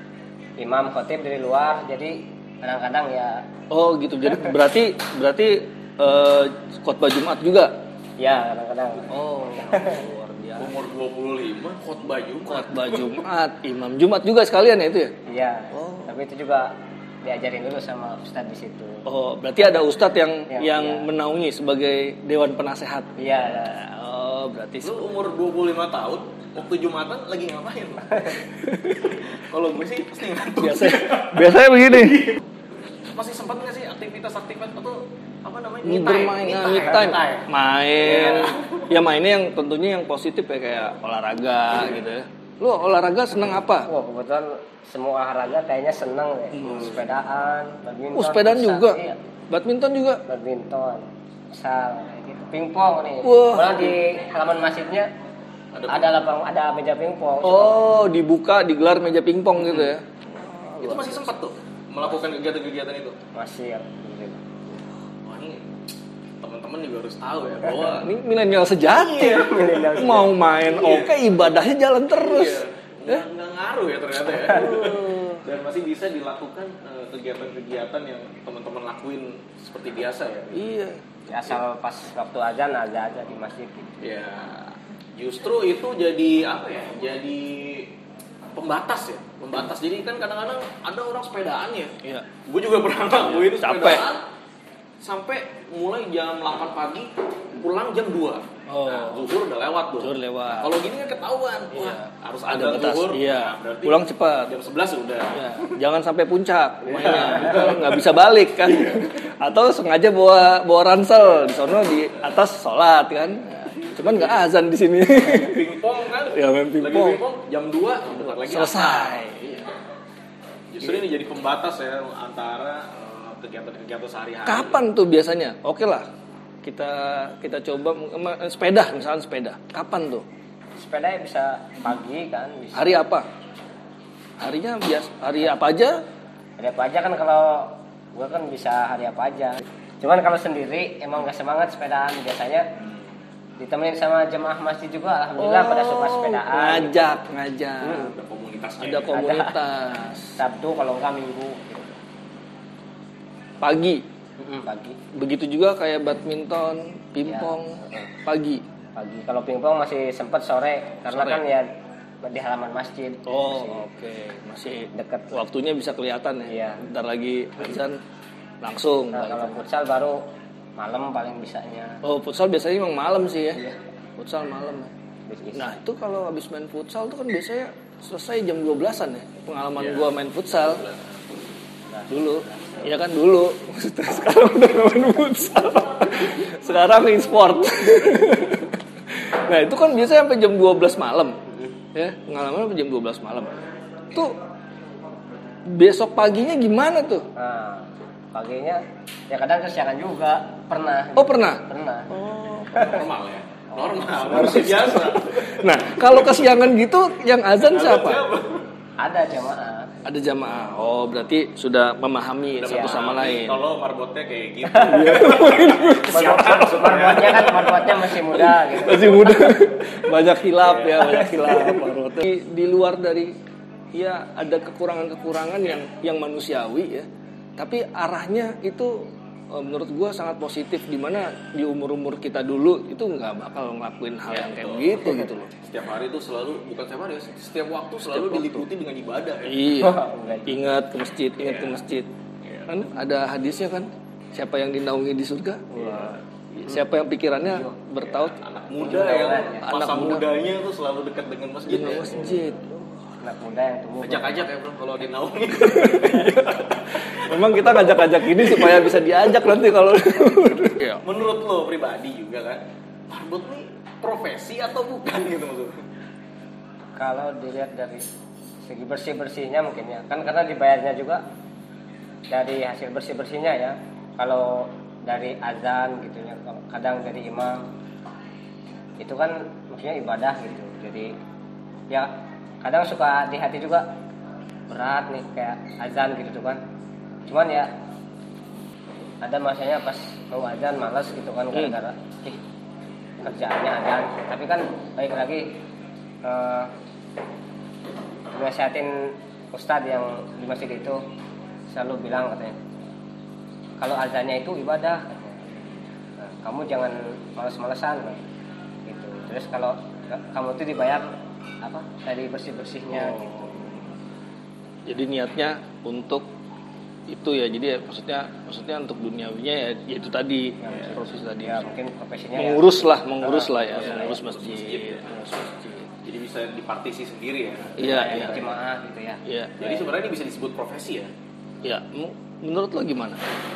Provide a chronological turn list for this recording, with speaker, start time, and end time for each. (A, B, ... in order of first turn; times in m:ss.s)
0:00.6-0:03.4 A
0:03.7-0:07.8 B
0:08.2-0:10.0 A
0:09.1-0:10.7 B
0:10.6-0:13.0 C
0:12.4-0:15.2 B
0:15.2-0:16.7 A
0:15.7-0:16.1 B
0:17.2-0:19.0 A
0:19.0-0:25.0 B
0:20.5-0:21.1 A
0:23.2-0:23.8 A
0:24.8-0:28.4 C
0:28.6-0:29.0 B
0:29.0-0:32.3 C
0:30.6-0:32.3 B
0:33.1-0:37.4 C
0:35.8-0:43.9 B
0:38.0-0:38.9 C
0:43.8-0:49.2 A
0:46.6-0:46.9 B
0:48.1-0:50.2 B
0:50.3-0:55.1 A
0:53.2-0:54.0 B
0:55.7-0:56.1 C
0:55.9-0:57.8 A
0:57.4-1:01.3 B
1:00.8-1:03.2 C
1:03.3-1:04.4 A
1:05.2-1:05.7 C
1:06.4-1:08.2 C
1:08.0-1:13.2 B
1:08.9-1:10.2 C
1:09.2-1:10.3 A
1:10.7-1:11.2 C
1:12.1-1:20.6 C
1:14.4-1:15.4 B
1:20.5-1:21.0 B
1:21.3-1:24.0 A
1:24.0-1:27.9 C
1:28.6-1:31.9 C
1:32.0-1:32.3 B
1:32.4-1:34.2 C
1:33.2-1:34.1 B
1:35.0-1:45.7 C
1:38.7-1:39.3 B
1:40.0-1:40.8 B
1:41.7-1:44.5 B
1:45.3-1:55.7 B
1:46.9-1:48.0 C
1:54.0-1:54.3 C
1:55.2-1:59.7 C
1:56.2-1:57.2 B
1:58.2-1:59.6 B
2:00.7-2:04.8 C
2:04.4-2:06.1 B
2:06.6-2:10.2 B
2:10.8-2:13.1 A
2:12.7-2:13.3 B
2:14.4-2:16.0 B
2:16.6-2:22.7 A
2:23.6-2:27.0 A
2:25.4-2:28.1 B
2:27.8-2:29.2 C
2:28.8-2:30.3 B
2:29.1-2:29.6 A
2:30.4-2:31.9 A
2:33.6-2:34.0 B
2:34.4-2:35.0 A
2:35.1-2:38.6 B
2:37.2-2:38.1 A
2:39.0-2:41.7 A
2:41.1-2:41.4 B
2:42.2-2:43.9 A
2:43.2-2:48.0 B
2:44.9-2:45.4 A
2:46.5-2:46.8 A
2:48.6-2:49.5 B
2:49.1-2:50.2 A
2:50.8-2:52.0 A
2:52.0-2:53.6 B
2:54.2-2:54.9 B
2:55.3-2:55.8 A
2:55.5-3:00.8 B
2:59.8-3:01.4 C
3:01.9-3:02.8 A
3:02.1-3:11.4 B
3:11.9-3:13.6 B
3:14.1-3:14.4 B
3:15.7-3:17.3 B
3:17.3-3:22.2 A
3:21.2-3:22.9 B
3:22.6-3:26.0 C
3:24.2-3:28.2 B
3:27.7-3:28.7 C
3:29.0-3:30.0 A
3:30.0-3:33.6 B
3:32.6-3:37.9 C
3:32.7-3:33.0 A
3:34.7-3:36.3 B
3:34.9-3:35.1 A
3:36.1-3:39.5 A
3:38.4-3:43.3 B
3:40.9-3:41.3 C
3:43.9-3:55.5 B
3:54.3-3:59.7 C
3:58.1-3:58.6 B
3:59.4-4:02.1 B
3:59.8-4:00.5 A
4:01.4-4:01.8 C
4:02.4-4:02.8 C
4:02.7-4:08.4 B
4:05.8-4:06.1 A
4:07.4-4:07.7 A
4:08.1-4:12.4 C
4:08.8-4:09.7 A
4:09.6-4:10.2 B
4:11.7-4:13.1 B
4:13.2-4:14.4 A
4:14.0-4:17.8 C
4:15.7-4:21.0 B
4:18.4-4:18.8 C
4:21.0-4:25.8 C
4:27.0-4:28.1 A
4:28.6-4:31.2 A
4:32.3-4:37.7 A
4:39.0-4:41.1 A
4:42.6-4:43.9 A
4:44.7-4:46.6 A
4:47.2-4:47.7 A
4:49.2-4:52.4 A
4:53.2-4:55.6 A
4:56.2-4:56.7 A
4:58.3-5:01.0 A
5:01.7-5:02.6 A
5:03.8-5:05.5 A
5:06.2-5:08.2 A
5:08.8-5:13.7 A
5:13.0-5:13.8 B
5:14.8-5:16.3 B
5:17.1-5:21.7 B
5:20.6-5:24.2 A
5:22.3-5:25.9 B
5:23.7-5:25.0 C
5:26.0-5:28.0 C
5:27.8-5:28.5 B
5:27.8-5:29.7 A
5:29.2-5:29.6 B
5:29.6-5:31.1 C
5:31.6-5:33.2 B